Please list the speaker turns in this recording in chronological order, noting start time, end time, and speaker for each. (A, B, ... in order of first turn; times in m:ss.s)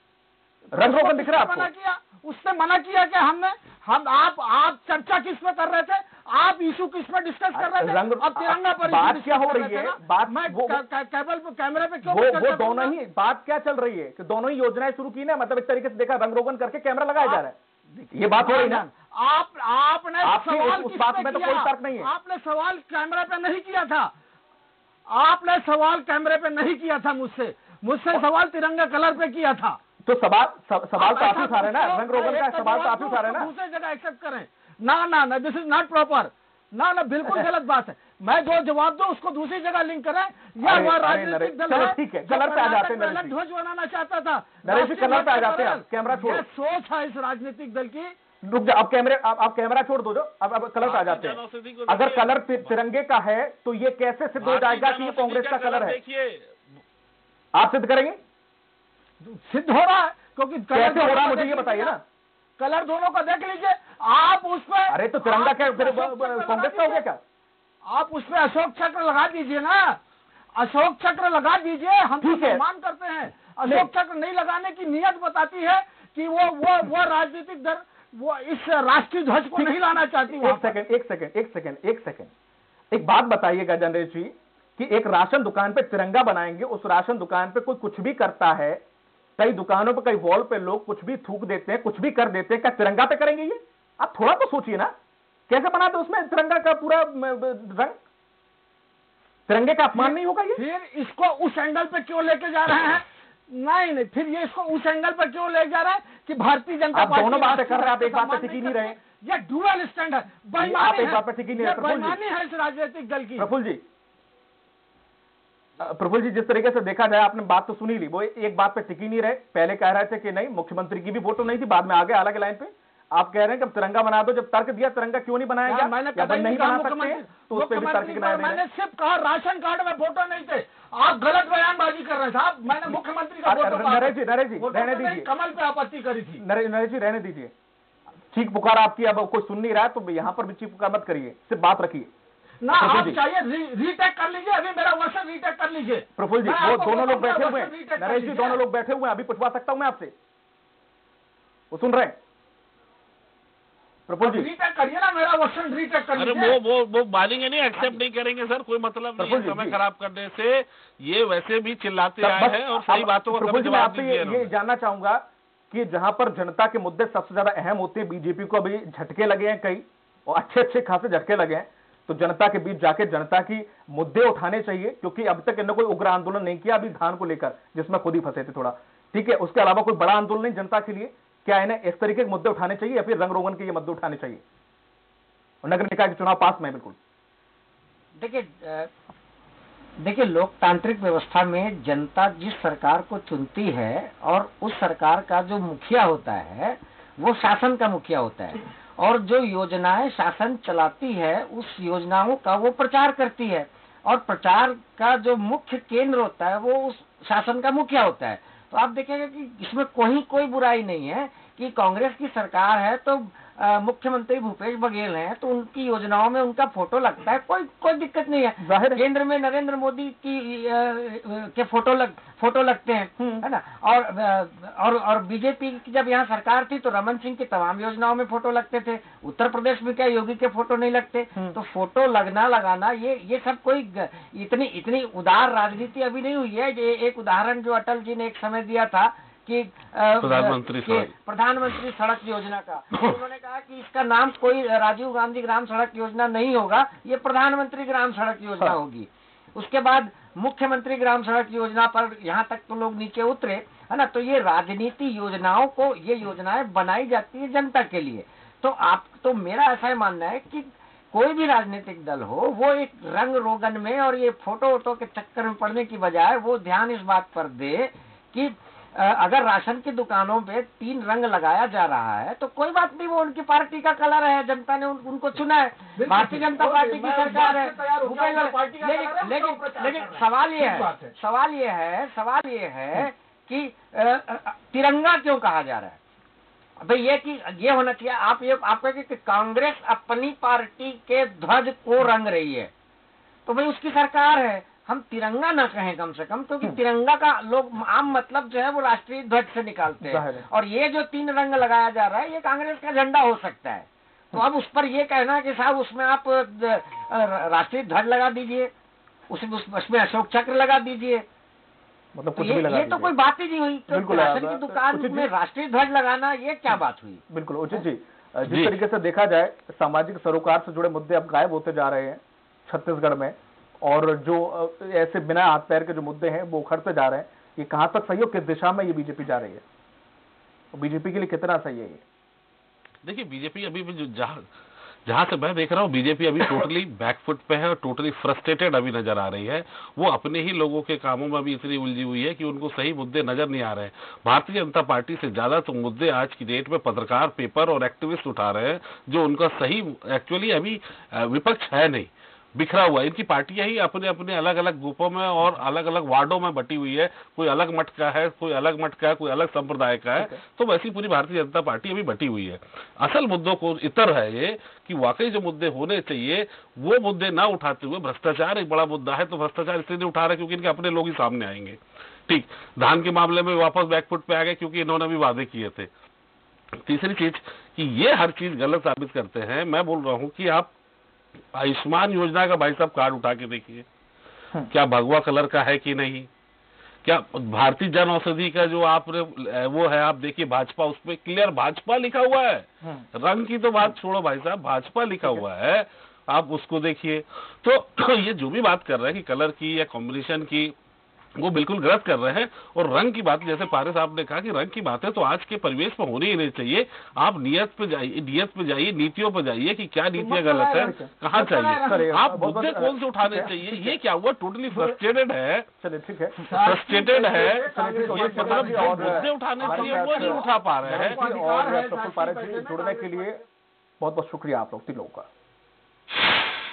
0:00.7-0:13.0 A
0:00.7-0:01.7 B
0:07.6-0:10.8 B
0:12.1-0:17.6 B
0:17.2-0:24.1 A
0:18.1-0:18.9 B
0:20.2-0:22.1 B
0:25.1-0:29.8 A
0:30.0-0:33.5 B
0:31.0-0:48.1 A
0:40.6-0:43.4 B
0:44.6-0:46.4 B
0:48.4-0:56.0 B
0:50.8-0:52.7 C
0:54.4-0:56.6 C
0:57.6-0:58.2 B
0:59.2-1:02.0 A
1:00.7-1:02.0 B
1:02.6-1:07.0 A
1:04.9-1:07.2 B
1:07.9-1:10.0 A
1:10.6-1:20.8 A
1:12.2-1:12.6 B
1:13.6-1:13.9 B
1:19.6-1:22.3 B
1:22.9-1:28.8 B
1:29.4-1:34.9 B
1:35.5-1:38.0 B
1:39.5-1:40.6 B
1:40.0-1:53.5 A
1:46.9-1:49.0 B
1:50.6-1:52.2 B
1:53.4-1:53.8 B
1:55.8-2:08.6 B
2:05.7-2:16.4 A
2:12.9-2:15.3 B
2:16.4-2:17.5 B
2:18.3-2:22.1 B
2:22.6-2:28.6 A
2:22.8-2:23.2 B
2:26.2-2:30.1 B
2:31.7-2:32.2 B
2:34.1-2:34.5 B
2:34.2-2:36.6 A
2:36.2-2:44.5 C
2:39.2-2:39.8 B
2:42.2-3:04.4 B
3:05.6-3:07.0 B
3:08.2-3:08.9 D
3:10.0-4:46.0 D
3:38.6-3:39.0 B
3:43.2-3:43.4 B
4:00.2-4:01.1 C
4:36.0-4:41.1 A
4:46.8-4:52.7 D
4:53.5-5:08.7 D
5:00.1-5:00.4 B
5:09.3-5:11.2 D
5:12.2-5:13.1 B
5:12.4-5:17.2 D
5:13.9-5:15.3 B
5:17.3-5:29.6 B
5:18.5-5:18.8 C
5:30.7-5:32.0 B
5:33.0-5:34.4 C
5:35.1-6:15.9 C
6:16.8-6:20.7 C
6:21.5-6:23.9 C
6:24.7-6:26.3 C
6:27.0-6:40.7 C
6:41.4-6:55.7 C
6:50.2-6:52.1 A
6:50.7-6:51.1 B
6:51.8-6:54.0 B
6:55.8-6:56.4 B
6:56.4-7:03.4 A
6:56.5-7:01.2 C
6:57.5-7:03.4 B
7:04.0-7:05.3 B